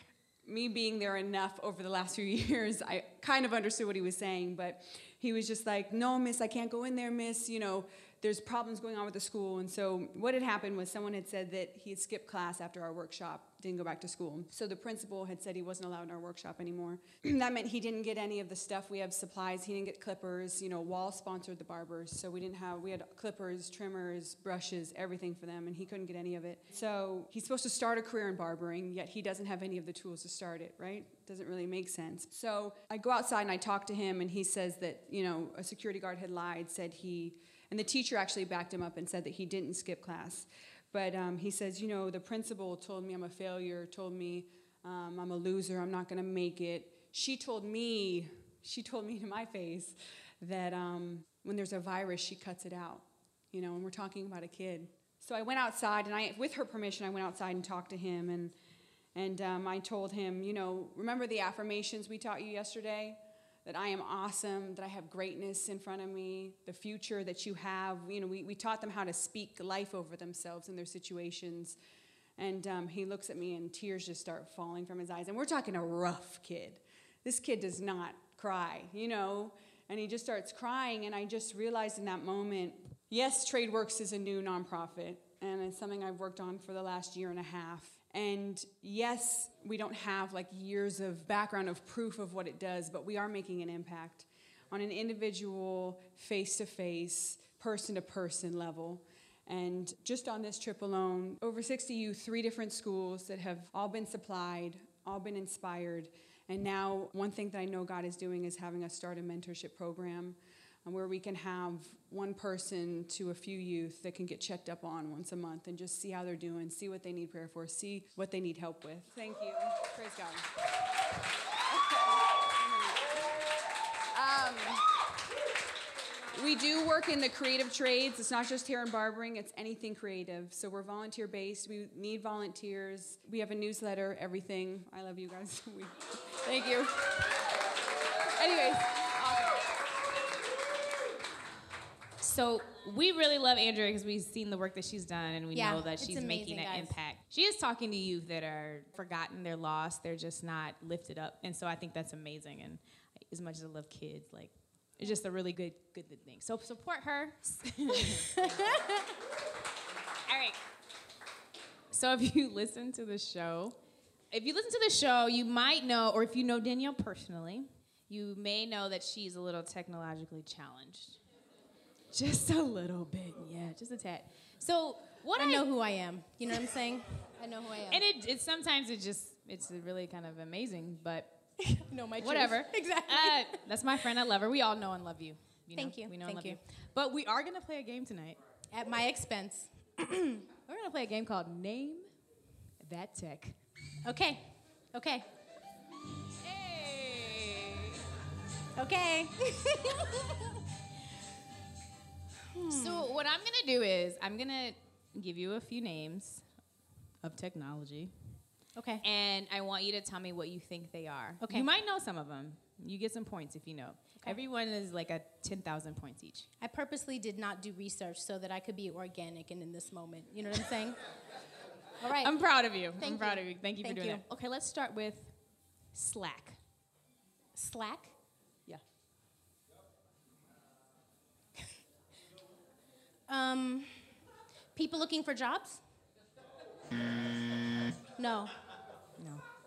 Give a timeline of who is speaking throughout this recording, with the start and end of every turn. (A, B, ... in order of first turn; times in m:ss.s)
0:00.4-0:58.5 A
0:59.2-1:11.8 A
1:12.4-2:00.5 A
2:01.7-2:03.1 A
2:04.1-2:04.9 A
2:06.4-2:16.4 A
2:16.5-2:16.9 B
2:18.4-2:19.6 B
2:22.2-2:38.6 B
2:25.5-2:27.0 C
2:38.0-2:39.1 C
2:40.3-2:40.6 B
2:41.9-2:43.8 B
2:44.3-2:51.2 B
2:52.1-2:55.7 B
2:55.4-2:58.0 C
2:57.9-3:01.4 B
3:01.6-3:03.6 C
3:02.2-3:08.4 B
3:05.8-3:06.6 C
3:08.7-3:10.5 C
3:10.7-3:12.1 B
3:12.8-3:13.6 B
3:14.0-3:15.3 C
3:16.4-3:18.0 B
3:18.8-3:20.6 C
3:22.5-3:23.1 C
3:22.7-3:26.4 B
3:27.2-3:28.1 B
3:28.8-3:29.0 C
3:29.0-3:36.5 B
3:31.4-3:31.7 C
3:36.6-3:41.0 C
3:42.0-3:42.3 C
3:42.2-3:45.3 B
3:43.0-3:44.2 C
3:45.9-3:46.6 B
3:47.6-3:48.1 C
3:53.3-3:54.1 C
3:54.8-3:55.8 C
3:58.2-3:58.5 C
3:59.2-3:59.4 B